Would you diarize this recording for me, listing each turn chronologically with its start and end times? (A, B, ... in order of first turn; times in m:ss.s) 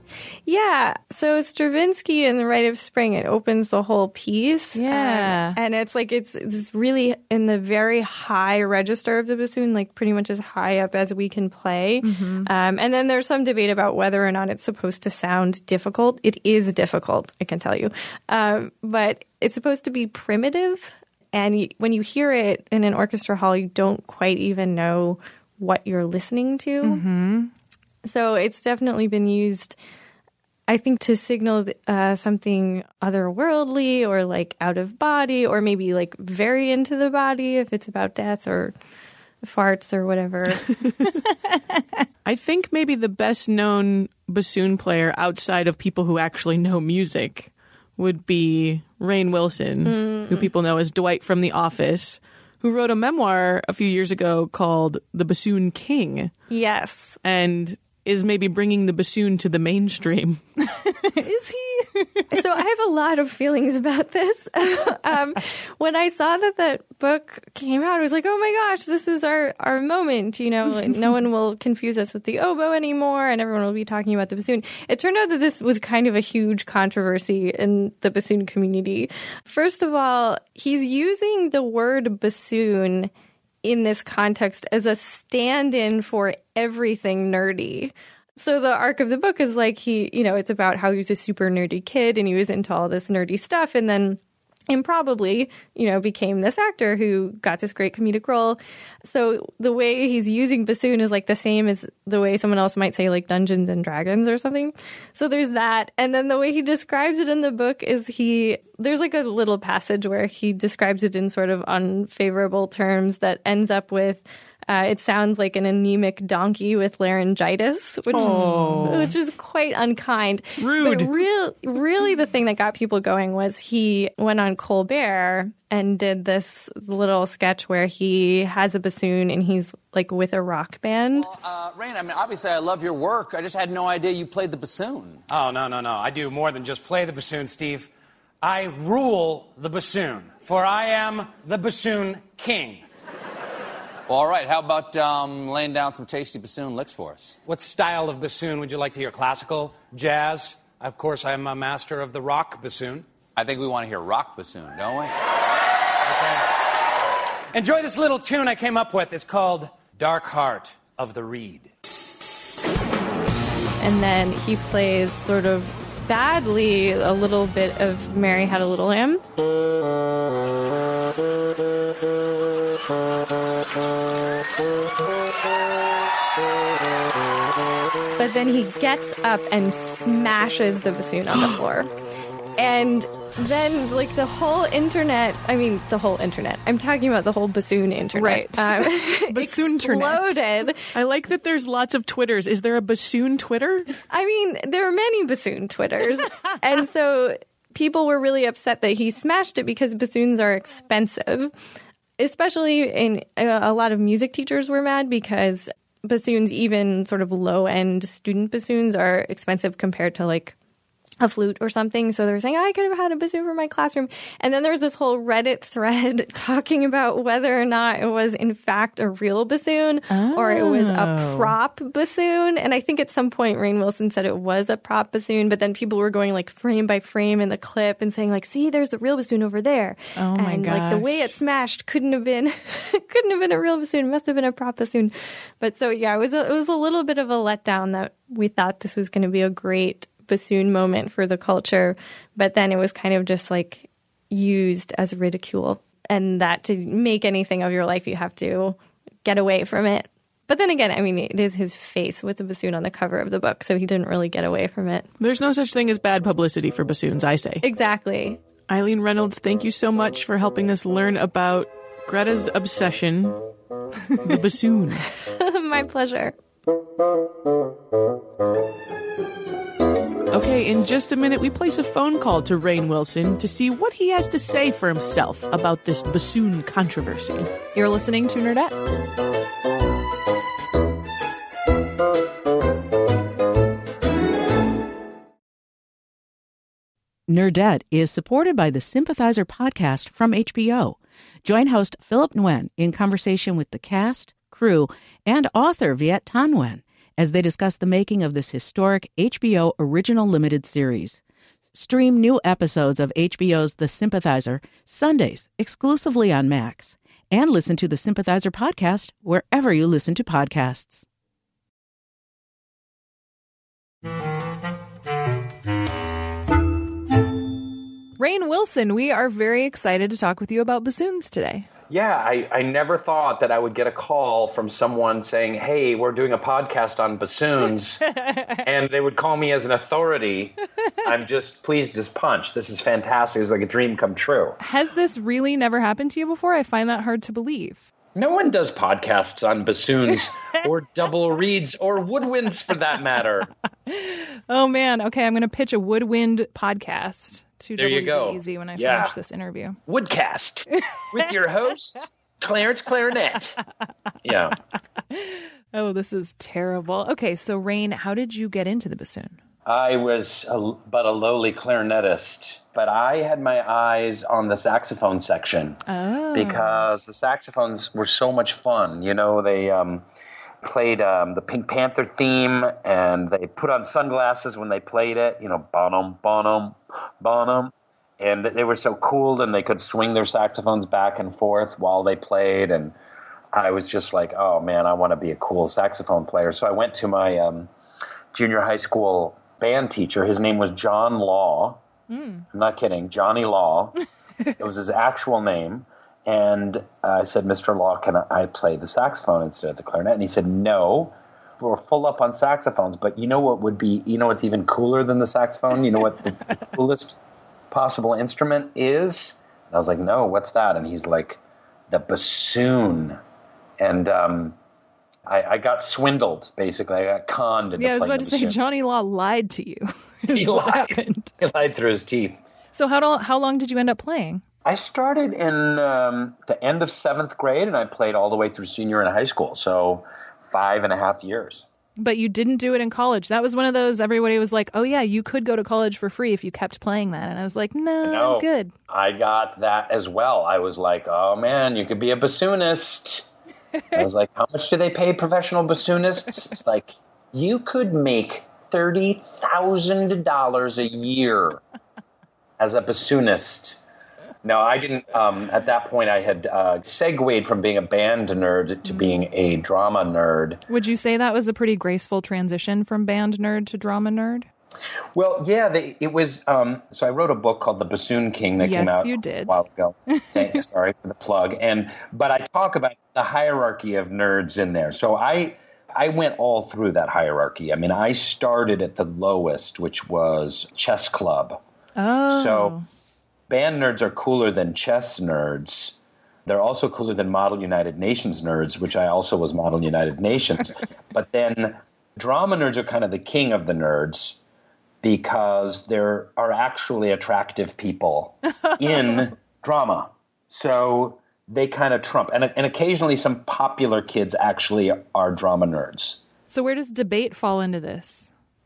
0:00.5-0:27.0 A
0:04.8-0:05.6 B
0:12.0-0:12.5 B
0:26.8-0:27.5 B
0:28.0-0:29.8 A
0:30.7-0:38.8 A
0:39.4-0:40.7 A
0:42.2-0:56.3 C
0:49.8-0:50.5 A
0:56.5-0:57.2 A
0:57.2-1:00.4 C
1:00.8-1:02.2 B
1:02.3-1:23.1 A
1:23.6-2:11.3 A
1:58.1-1:59.1 C
1:58.1-1:59.1 B
2:00.6-2:01.2 C
2:11.2-2:15.2 D
2:15.3-2:17.9 E
2:18.4-2:22.8 E
2:24.1-2:27.4 D
2:27.4-2:33.1 E
2:33.4-2:35.2 D
2:36.0-2:36.5 E
2:37.5-2:41.7 E
2:43.8-2:49.2 A
2:58.2-3:01.9 A
3:02.6-3:10.8 A
3:08.1-3:10.4 B
3:10.9-3:13.9 C
3:14.1-3:21.5 A
3:22.2-3:30.6 A
3:31.2-4:15.1 A
3:40.1-3:41.6 B
3:50.2-3:51.4 B
4:15.2-4:17.6 C
4:17.6-4:18.4 A
4:18.7-4:23.4 C
4:24.2-4:25.1 C
4:25.2-4:26.3 A
4:30.3-4:37.5 C
4:37.7-4:38.8 B
4:47.3-5:01.2 F
5:01.7-5:11.1 F
5:18.2-5:21.7 B
5:21.9-5:28.0 G
5:28.6-5:34.6 G
5:34.6-5:37.9 B
5:38.2-5:43.5 G
5:43.9-5:49.8 B
5:47.8-5:49.2 G
5:49.9-5:53.6 G
5:54.2-5:54.6 G
5:55.1-5:59.4 B
5:59.7-6:05.8 G
6:05.9-6:06.8 B
6:06.3-6:10.0 G
6:10.6-6:23.0 G
6:23.5-6:27.7 G
6:28.3-6:31.8 G
6:32.1-6:32.4 B
6:32.5-6:34.0 G
6:34.6-6:53.2 G
6:53.8-6:54.6 G
6:55.3-6:58.6 G
6:57.8-7:01.3 B
7:00.3-7:02.4 G
7:02.7-7:04.4 B
7:04.6-7:11.7 G
7:12.0-7:18.7 B
7:18.0-7:23.3 G
7:23.9-7:31.6 G
7:32.6-7:33.8 G
7:34.4-7:40.6 G
7:40.7-7:44.5 B
7:45.1-8:01.6 G
7:48.6-7:49.6 B
8:02.0-8:02.8 B
8:02.3-8:02.8 G
8:03.5-8:14.4 G
8:15.0-8:26.2 G
8:26.5-8:28.3 B